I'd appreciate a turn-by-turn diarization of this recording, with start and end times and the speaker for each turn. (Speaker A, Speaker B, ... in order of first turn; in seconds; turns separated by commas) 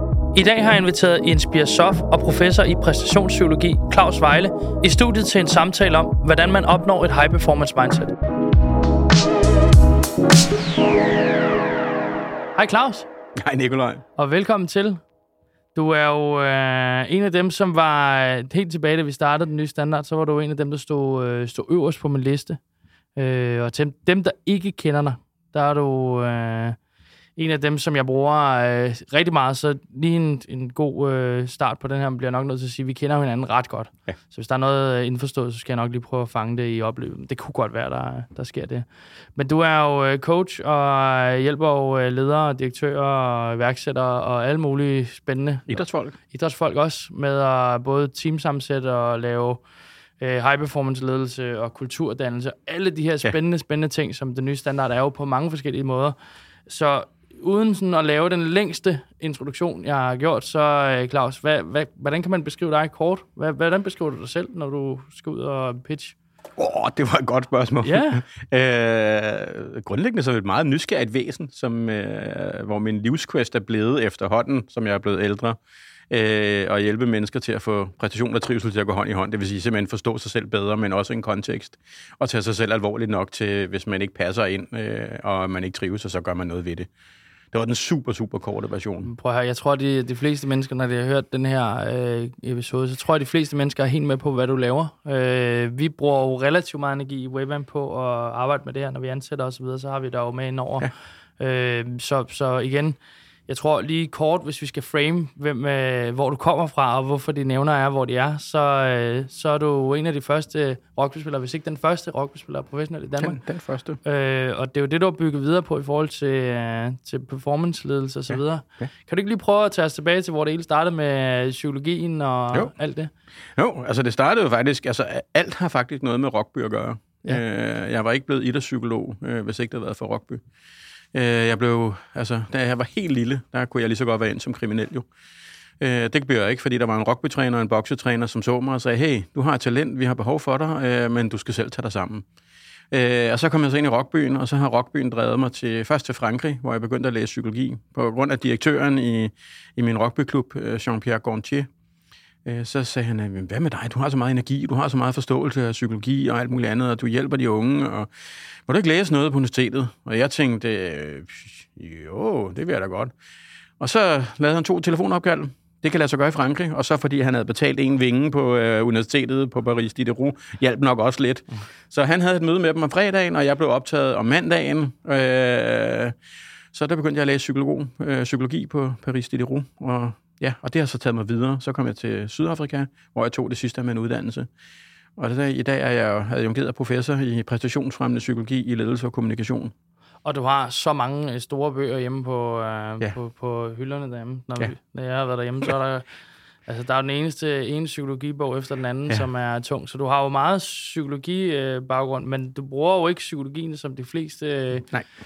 Speaker A: 0.3-8.1, Speaker A: 12.6-13.1, Speaker B: 13.4-14.0, Speaker A: 14.2-15.0, Speaker A: 15.8-22.6, Speaker A: 23.2-26.8, Speaker A: 27.4-49.6, Speaker B: 45.7-46.2, Speaker A: 50.2-56.2, Speaker A: 56.7-66.2, Speaker B: 66.6-75.6, Speaker A: 67.8-68.2, Speaker B: 76.1-86.9, Speaker B: 87.5-89.1, Speaker A: 89.0-103.0, Speaker A: 103.5-113.4, Speaker B: 113.2-114.0, Speaker A: 114.0-123.1, Speaker B: 123.6-130.4, Speaker B: 131.1-135.1, Speaker B: 135.8-142.3, Speaker B: 142.9-151.7, Speaker B: 152.4-158.1, Speaker B: 158.7-163.1, Speaker B: 163.8-176.2, Speaker B: 176.7-184.5, Speaker B: 185.2-189.7, Speaker A: 190.2-196.1, Speaker A: 196.7-204.9